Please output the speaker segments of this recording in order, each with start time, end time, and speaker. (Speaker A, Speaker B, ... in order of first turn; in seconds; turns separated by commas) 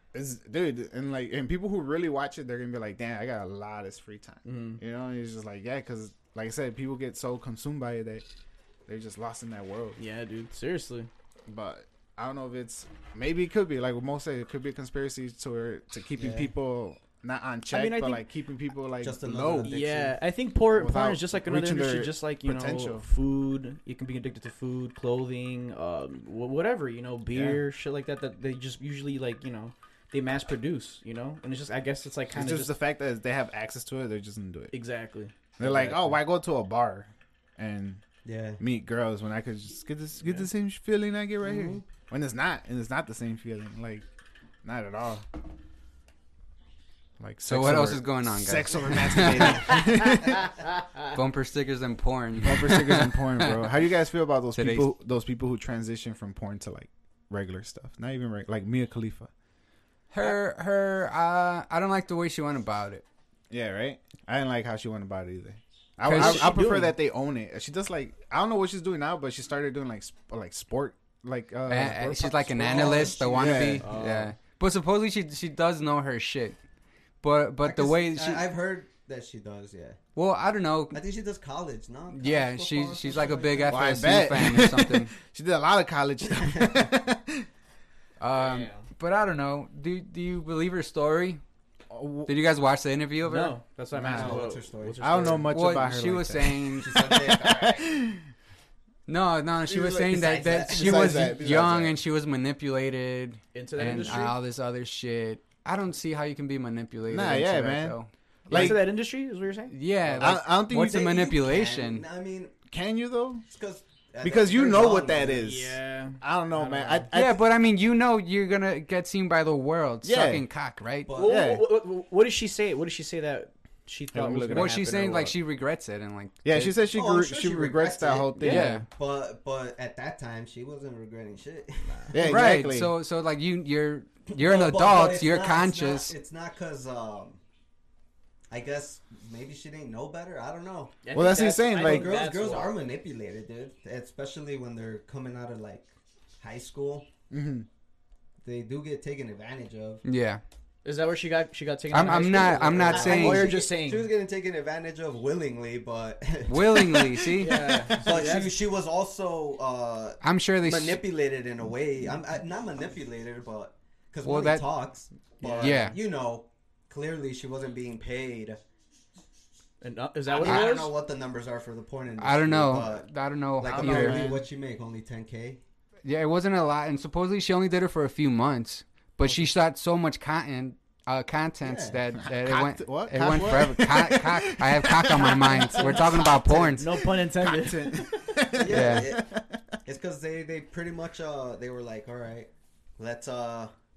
Speaker A: 0.1-8.2, Speaker B: 4.4-4.8, Speaker A: 8.9-10.0, Speaker B: 10.0-11.1, Speaker A: 11.5-19.8, Speaker C: 16.2-16.5, Speaker B: 17.7-18.2, Speaker C: 19.0-20.1, Speaker B: 19.6-32.7, Speaker A: 20.7-23.0, Speaker A: 27.3-27.6, Speaker A: 32.3-34.7, Speaker B: 34.7-36.2, Speaker A: 35.6-38.0, Speaker C: 38.2-38.6, Speaker A: 38.6-44.0, Speaker C: 41.4-41.8, Speaker A: 44.6-45.2, Speaker A: 47.2-50.5, Speaker D: 47.5-49.8, Speaker B: 50.0-50.6, Speaker D: 51.0-53.6, Speaker A: 52.4-59.3, Speaker D: 54.5-54.9, Speaker D: 60.1-63.0, Speaker A: 63.5-74.0, Speaker D: 66.0-66.6, Speaker B: 66.1-66.9, Speaker D: 71.7-76.6, Speaker C: 72.6-73.7, Speaker B: 73.8-74.3, Speaker D: 77.2-78.5, Speaker C: 77.6-80.0, Speaker D: 80.2-81.0, Speaker C: 80.9-84.1, Speaker D: 82.1-85.1, Speaker A: 83.7-87.5, Speaker C: 86.3-86.9, Speaker D: 88.2-91.4, Speaker B: 88.3-88.8, Speaker A: 91.9-92.3, Speaker D: 92.3-93.5, Speaker B: 93.2-95.5, Speaker A: 94.0-94.5, Speaker C: 94.0-95.0, Speaker A: 95.0-98.2, Speaker D: 95.5-97.2, Speaker C: 96.8-97.9, Speaker D: 99.1-108.9, Speaker A: 99.7-102.0, Speaker C: 100.0-101.4, Speaker B: 103.5-104.4, Speaker A: 107.1-108.0, Speaker A: 108.5-108.8, Speaker B: 108.5-110.4, Speaker D: 109.7-112.0, Speaker A: 110.2-111.1, Speaker C: 110.7-112.6, Speaker A: 112.7-113.4, Speaker C: 113.5-115.5, Speaker A: 114.2-117.4, Speaker B: 115.3-117.1, Speaker D: 117.1-121.1, Speaker A: 120.0-120.5, Speaker C: 121.0-121.5, Speaker B: 121.1-125.3, Speaker A: 121.2-121.6, Speaker A: 124.1-124.7, Speaker D: 124.5-126.8, Speaker A: 126.4-128.8, Speaker C: 126.9-132.1, Speaker B: 128.4-128.8, Speaker D: 128.4-128.8, Speaker B: 131.8-132.2, Speaker A: 132.1-132.9, Speaker D: 132.2-136.1, Speaker C: 134.3-137.4, Speaker C: 138.5-141.0, Speaker B: 141.0-142.8, Speaker A: 141.1-142.2, Speaker C: 141.7-147.1, Speaker A: 147.3-147.7, Speaker C: 148.4-150.0, Speaker D: 150.0-150.4, Speaker B: 150.8-154.1, Speaker D: 151.9-153.5, Speaker C: 152.7-157.2, Speaker D: 156.5-158.0, Speaker A: 157.1-158.0, Speaker B: 157.3-158.6, Speaker C: 157.9-168.6, Speaker D: 160.2-161.0, Speaker D: 164.2-164.7, Speaker B: 165.4-165.9, Speaker D: 165.6-166.0, Speaker B: 169.8-170.9, Speaker C: 170.3-173.1, Speaker D: 172.2-174.2, Speaker C: 173.6-175.6, Speaker A: 173.6-174.4, Speaker D: 176.0-186.9, Speaker C: 181.6-182.0, Speaker A: 182.3-186.2, Speaker C: 185.5-186.8, Speaker B: 186.7-188.5, Speaker A: 187.2-189.8, Speaker C: 188.5-189.3, Speaker D: 188.7-189.1, Speaker C: 189.8-193.7